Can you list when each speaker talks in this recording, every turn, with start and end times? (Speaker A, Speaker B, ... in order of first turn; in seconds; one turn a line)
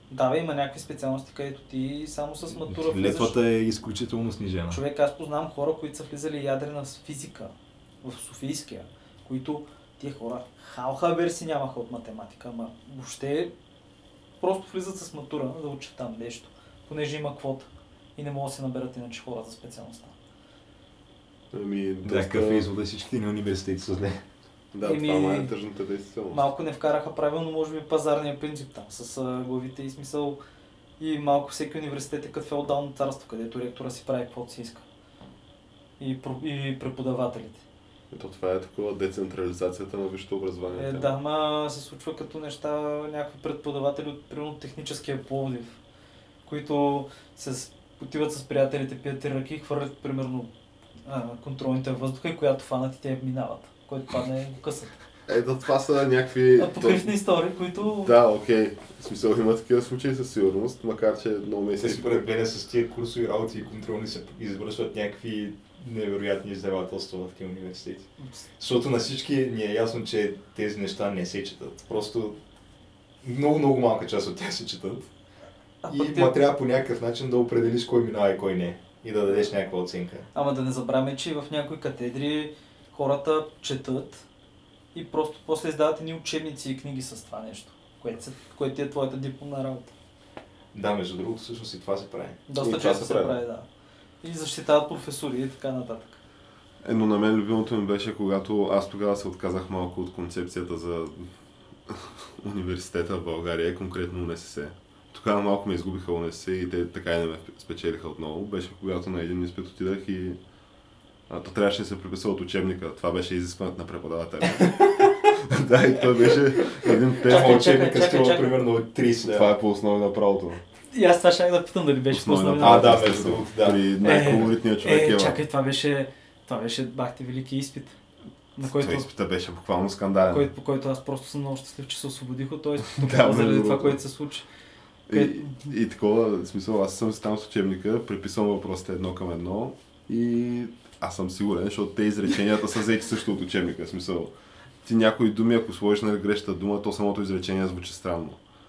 Speaker A: 0.1-3.4
Speaker B: 2.7-4.8
Speaker A: 4.7-13.5
Speaker A: 14.4-20.1
Speaker C: 21.5-22.7
Speaker B: 22.1-24.1
Speaker C: 24.7-26.5
Speaker A: 24.8-25.5
Speaker A: 26.3-30.4
Speaker A: 31.0-34.8
Speaker A: 36.0-37.6
Speaker C: 38.1-41.2
Speaker A: 40.7-45.8
Speaker A: 46.5-50.5
Speaker A: 51.0-54.9
Speaker C: 55.3-57.1
Speaker A: 56.6-58.1
Speaker C: 58.0-62.2
Speaker D: 61.8-72.4
Speaker D: 73.2-75.1
Speaker A: 75.8-76.4
Speaker D: 75.9-80.3
Speaker A: 79.3-79.5
Speaker A: 80.3-84.2
Speaker A: 84.9-89.9
Speaker D: 90.7-92.4
Speaker A: 92.5-93.7
Speaker C: 92.6-93.4
Speaker A: 94.2-96.2
Speaker C: 96.8-101.3
Speaker C: 101.9-110.4
Speaker C: 111.3-117.7
Speaker A: 114.7-115.1
Speaker D: 117.2-119.5
Speaker A: 117.2-118.6
Speaker C: 119.2-120.6
Speaker A: 120.9-123.2
Speaker C: 122.1-125.4
Speaker D: 122.6-124.4
Speaker A: 124.0-128.0
Speaker A: 128.6-129.1
Speaker C: 128.6-130.5
Speaker A: 130.3-134.5
Speaker C: 132.9-134.0
Speaker C: 135.1-144.3
Speaker A: 135.1-135.7
Speaker C: 144.8-148.4